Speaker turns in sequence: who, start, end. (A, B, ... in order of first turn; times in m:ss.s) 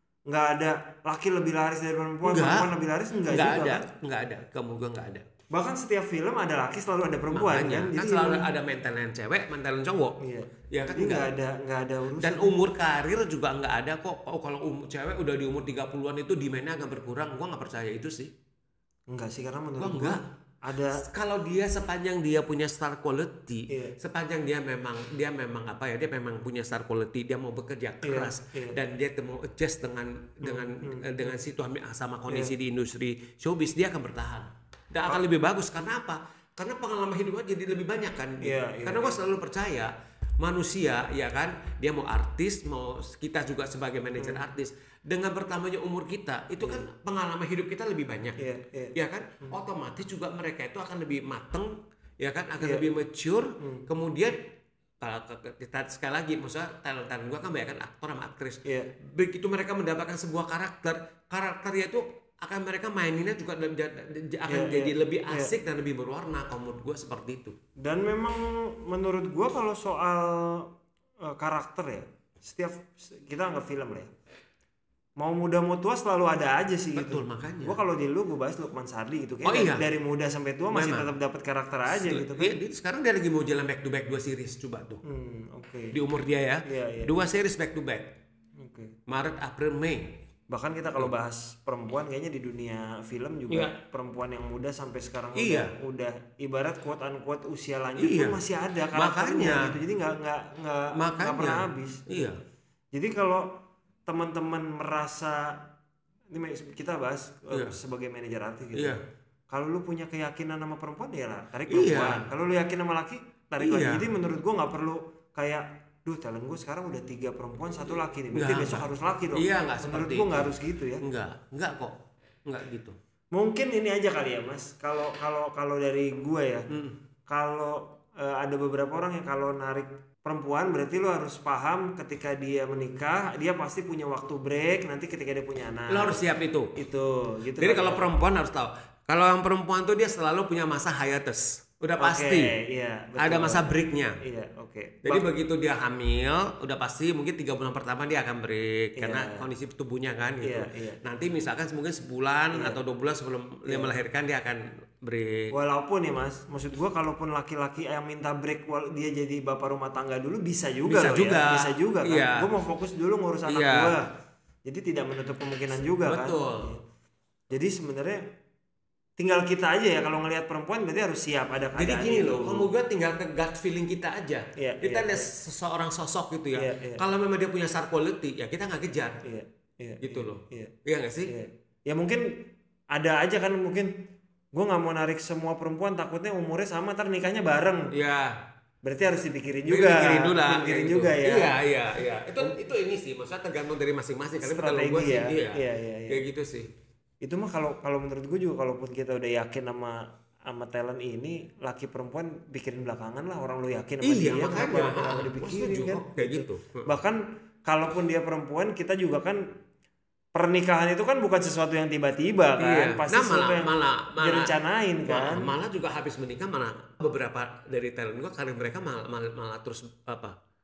0:00.3-0:03.8 A
0:02.2-0:02.7 B
0:03.3-0:05.3 B
0:05.5-0:08.5 A
0:07.3-0:10.2 B
0:10.2-0:12.6 A
0:10.7-0:11.3 B
0:12.2-0:18.3 B
0:19.1-0:21.0 A
0:19.8-0:20.2 B
0:20.9-0:48.4 B
0:23.7-0:23.9 A
0:28.0-0:28.8 A
0:30.4-0:31.1 A
0:32.3-0:32.5 A
0:38.4-0:39.2 A
0:44.2-0:44.4 A
0:48.4-0:49.6 A
0:48.9-1:07.6 B
0:52.6-0:52.9 A
0:53.6-0:53.9 A
0:58.6-0:58.9 A
1:04.4-1:05.5 A
1:07.8-1:10.7 A
1:11.3-1:14.1 A
1:15.2-1:22.6 A
1:16.9-1:17.8 B
1:19.4-1:19.8 B
1:20.7-1:21.1 B
1:21.9-1:25.0 B
1:25.0-1:25.9 A
1:25.9-1:28.1 B
1:26.6-1:27.1 A
1:28.6-1:28.9 A
1:29.1-1:30.2 B
1:30.5-1:42.2 A
1:33.5-1:33.8 B
1:35.3-1:35.7 B
1:38.0-1:38.4 B
1:38.9-1:39.8 B
1:40.9-1:42.4 B
1:42.9-1:45.7 A
1:46.3-1:49.0 A
1:47.5-1:47.8 B
1:48.7-1:49.0 B
1:49.5-2:01.0 A
1:51.7-1:52.3 B
1:53.6-1:54.1 B
1:58.3-2:03.0 B
2:03.3-2:06.7 A
2:06.7-2:07.0 B
2:07.3-2:16.2 A
2:15.9-2:16.7 B
2:16.8-2:18.1 A
2:17.6-2:22.5 B
2:22.0-2:25.3 A
2:23.2-2:24.2 B
2:25.0-2:35.5 B
2:29.0-2:29.5 A
2:30.4-2:31.0 A
2:32.5-2:32.8 A
2:33.7-2:33.9 A
2:35.5-2:44.1 A
2:40.8-2:42.5 B
2:43.5-2:44.0 B
2:44.6-2:46.8 A
2:46.0-2:46.8 B
2:47.5-2:48.3 A
2:49.2-2:52.7 A
2:51.8-2:59.2 B
2:54.6-2:55.3 A
2:56.5-2:57.0 A
2:59.2-3:03.9 A
3:00.0-3:01.3 B
3:04.5-3:07.9 A
3:07.9-3:08.4 B
3:08.8-3:11.6 A
3:09.7-3:16.7 B
3:14.4-3:16.2 A
3:17.2-3:29.5 A
3:24.0-3:26.8 B
3:30.3-3:35.5 A
3:32.6-3:40.4 B